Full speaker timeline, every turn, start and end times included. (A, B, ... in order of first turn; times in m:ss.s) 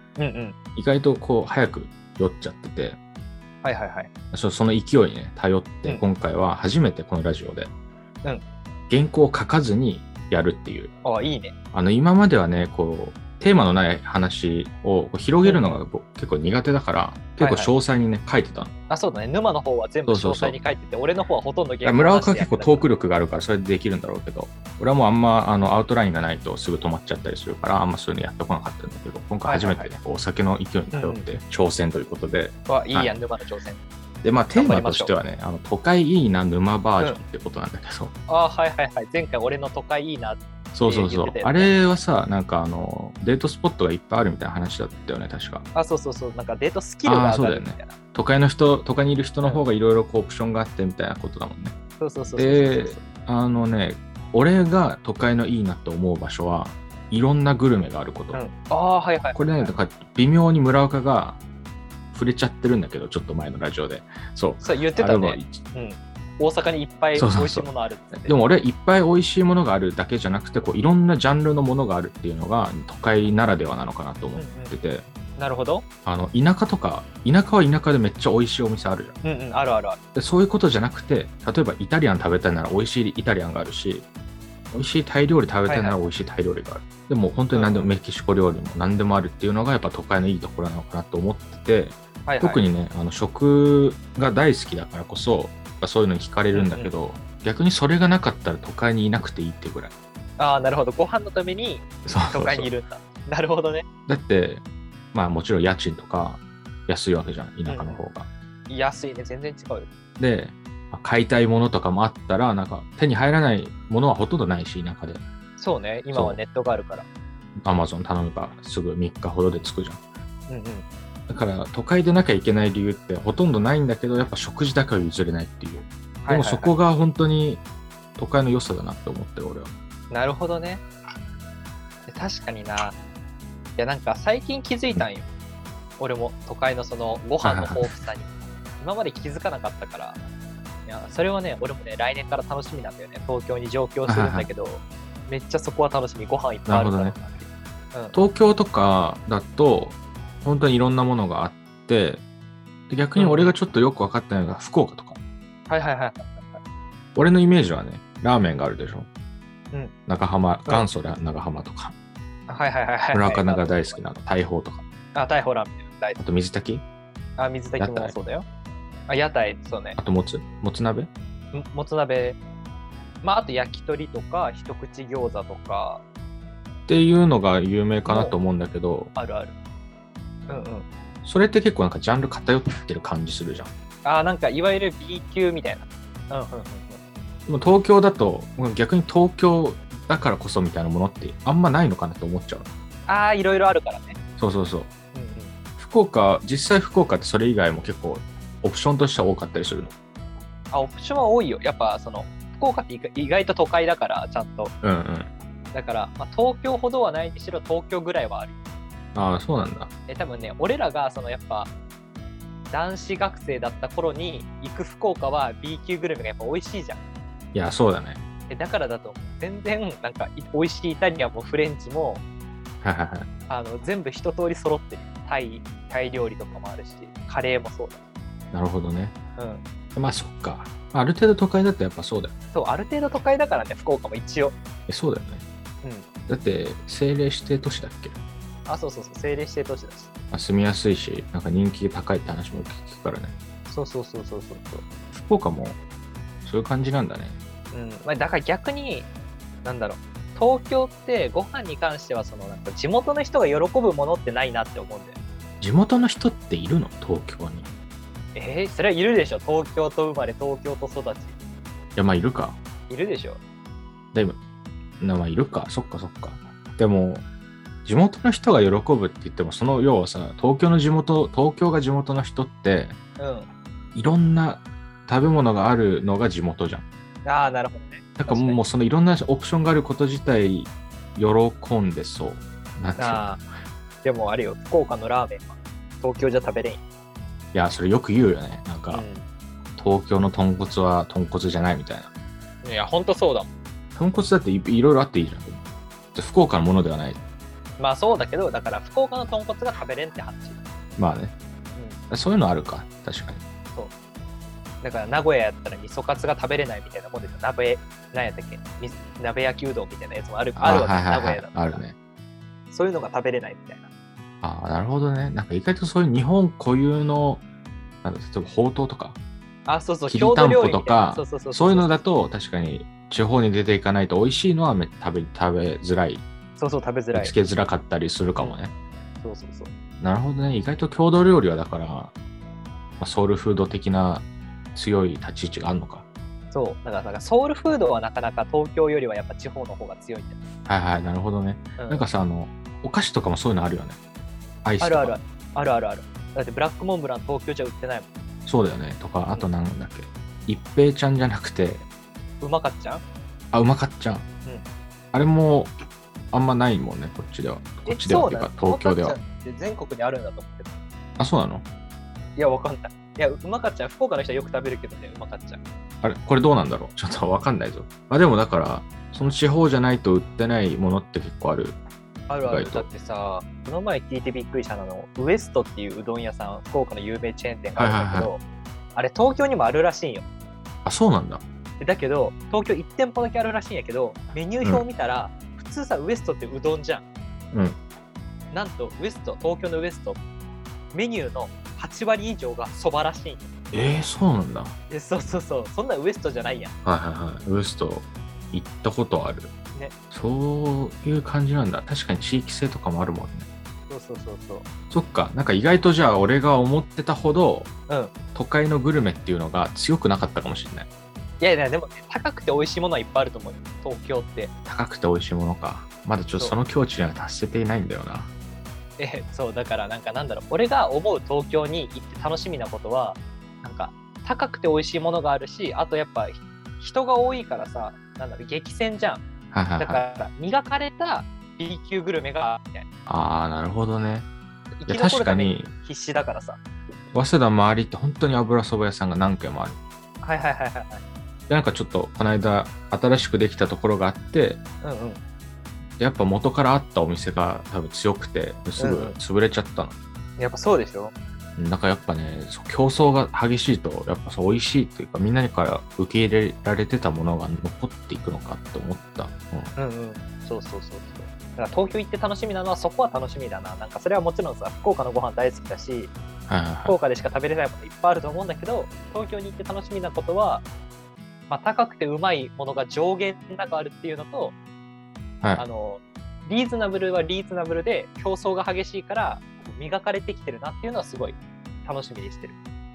0:00.2-0:00.6 A
0:00.7-0:03.0 B
0:03.6-0:04.1 A
0:04.3-0:07.7 B
0:08.9-0:10.9 B
0:11.0-0:11.5 A
0:11.7-0:18.7 B
0:15.4-0:15.8 A
0:17.4-0:17.7 A
0:18.9-0:22.8 A
0:20.0-0:20.6 B
0:21.8-0:33.1 B
0:29.4-0:30.0 A
0:30.9-0:31.2 A
0:32.7-0:33.8 A
0:34.2-0:38.1 B
0:34.5-0:35.1 A
0:38.3-0:41.8 A
0:40.7-0:45.6 B
0:45.7-0:48.0 A
0:47.0-0:51.7 B
0:52.0-0:53.0 A
0:52.3-0:58.4 B
0:58.3-0:59.7 A
0:59.3-1:01.4 B
1:02.1-1:05.6 B
1:04.6-1:08.4 A
1:07.1-1:15.0 B
1:14.4-1:14.7 A
1:15.4-1:15.8 A
1:16.0-1:19.2 B
1:19.2-1:20.0 A
1:20.1-1:24.0 B
1:24.7-1:39.9 B
1:25.7-1:26.0 A
1:27.5-1:27.9 A
1:32.2-1:32.6 A
1:36.5-1:36.9 A
1:40.4-1:43.8 A
1:42.0-1:42.7 B
1:44.1-1:44.6 B
1:45.1-1:48.3 B
1:47.7-1:48.0 A
1:48.7-1:49.9 A
1:50.2-1:55.2 B
1:55.6-1:57.0 A
1:56.1-1:56.4 B
1:57.6-2:00.0 B
2:00.5-2:00.8 A
2:01.3-2:07.6 B
2:06.2-2:06.7 A
2:08.2-2:09.7 B
2:10.1-2:10.8 A
2:12.1-2:13.0 A
2:13.8-2:15.3 A
2:16.0-2:20.2 A
2:17.4-2:17.9 B
2:20.8-2:28.2 A
2:24.1-2:24.5 B
2:26.7-2:27.2 B
2:28.1-2:32.2 B
2:32.9-2:35.2 B
2:33.2-2:33.6 A
2:35.7-2:36.6 A
2:37.1-2:39.1 B
2:40.1-2:41.9 B
2:42.5-2:44.0 A
2:43.1-2:44.8 B
2:45.1-2:46.2 A
2:46.2-2:46.8 B
2:47.4-2:48.4 A
2:47.8-2:48.2 B
2:49.1-2:50.0 A
2:50.0-2:51.1 B
2:51.5-2:52.4 A
2:53.2-2:56.0 A
2:56.9-2:59.1 B
2:58.0-2:58.3 A
2:59.2-2:59.5 A
3:00.5-3:00.8 A
3:01.2-3:03.7 B
3:04.0-3:07.0 A
3:07.5-3:12.7 B
3:13.1-3:14.2 A
3:14.4-3:14.9 B
3:15.1-3:15.5 A
3:15.8-3:19.9 B
3:20.7-3:24.7 A
3:24.8-3:25.3 B
3:25.7-3:28.6 A
3:29.1-3:29.9 B
3:30.1-3:31.7 A
3:32.7-3:37.0 A
3:37.5-3:38.2 B
3:38.5-3:42.2 A
3:42.8-3:43.3 B
3:43.5-3:48.0 A
3:48.5-3:49.1 B
3:49.4-3:49.6 A
3:49.9-3:52.3 B
3:52.5-3:54.5 A
3:54.9-3:55.4 B
3:55.8-3:56.1 A
3:56.3-3:58.2 B
3:58.7-4:00.1 A
4:00.3-4:03.3 B
4:03.7-4:04.8 A
4:05.1-4:05.8 B
4:06.4-4:07.4 B
4:07.7-4:09.1 A
4:09.6-4:15.2 A
4:15.6-4:17.7 B
4:18.3-4:21.3 A
4:22.0-4:22.6 B
4:22.9-4:23.4 A
4:25.0-4:27.2 B
4:27.8-4:33.0 B
4:33.2-4:33.5 A
4:33.9-4:36.8 B
4:37.2-4:38.6 A
4:38.2-4:43.3 B
4:43.0-4:43.4 A
4:44.0-4:46.8 A
4:47.5-4:49.0 B
4:48.9-4:49.2 A
4:49.8-4:52.1 B
4:52.6-4:53.5 A
4:54.0-4:55.6 B
4:56.1-4:57.2 B
4:57.8-5:00.6 A
5:01.0-5:01.3 B
5:01.8-5:02.0 A
5:02.1-5:03.4 B
5:04.8-5:11.8 A
5:10.6-5:11.9 B
5:12.7-5:13.9 A
5:14.4-5:17.4 B
5:18.0-5:19.2 B
5:19.6-5:22.0 A
5:20.1-5:26.2 B
5:26.6-5:27.3 A
5:27.1-5:28.7 B
5:29.2-5:29.7 A
5:30.0-5:32.1 B
5:33.0-5:36.0 B
5:36.5-5:40.4 A
5:40.7-5:44.0 B
5:41.8-5:42.0 A
5:44.6-5:45.2 B
5:44.8-5:48.1 A
5:48.4-5:51.8 B
5:52.4-5:53.0 A
5:53.5-5:54.2 B
5:55.1-5:55.7 B
5:56.3-5:59.2 B
5:57.8-6:00.7 A
6:01.2-6:01.6 B
6:02.4-6:05.6 A
6:06.0-6:11.8 B
6:12.3-6:18.4 A
6:12.4-6:12.8 B
6:17.8-6:18.3 B
6:18.9-6:20.2 A
6:20.8-6:21.4 B
6:21.8-6:27.0 A
6:27.5-6:27.8 B
6:28.5-6:30.2 A
6:30.9-6:33.5 A
6:33.7-6:34.8 B
6:34.9-6:36.7 A
6:36.8-6:39.5 B
6:40.1-6:43.5 B
6:43.9-6:44.7 A
6:44.9-6:47.7 B
6:47.9-6:48.1 A
6:48.3-6:50.9 B
6:51.4-6:54.5 A
6:54.6-6:58.3 B
6:59.0-7:09.2 A
7:09.5-7:10.0 B
7:09.8-7:12.8 A
7:13.1-7:14.3 B
7:14.8-7:16.6 A
7:14.9-7:15.7 B
7:17.1-7:19.8 B
7:20.2-7:21.0 A
7:21.5-7:24.6 B
7:24.8-7:25.2 A
7:26.0-7:30.0 B
7:28.8-7:29.2 A
7:30.4-7:31.1 A
7:31.6-7:39.7 B
7:39.8-7:46.1 A
7:46.5-7:47.0 B
7:46.8-7:50.6 A
7:51.5-7:54.5 A
7:55.6-8:02.6 A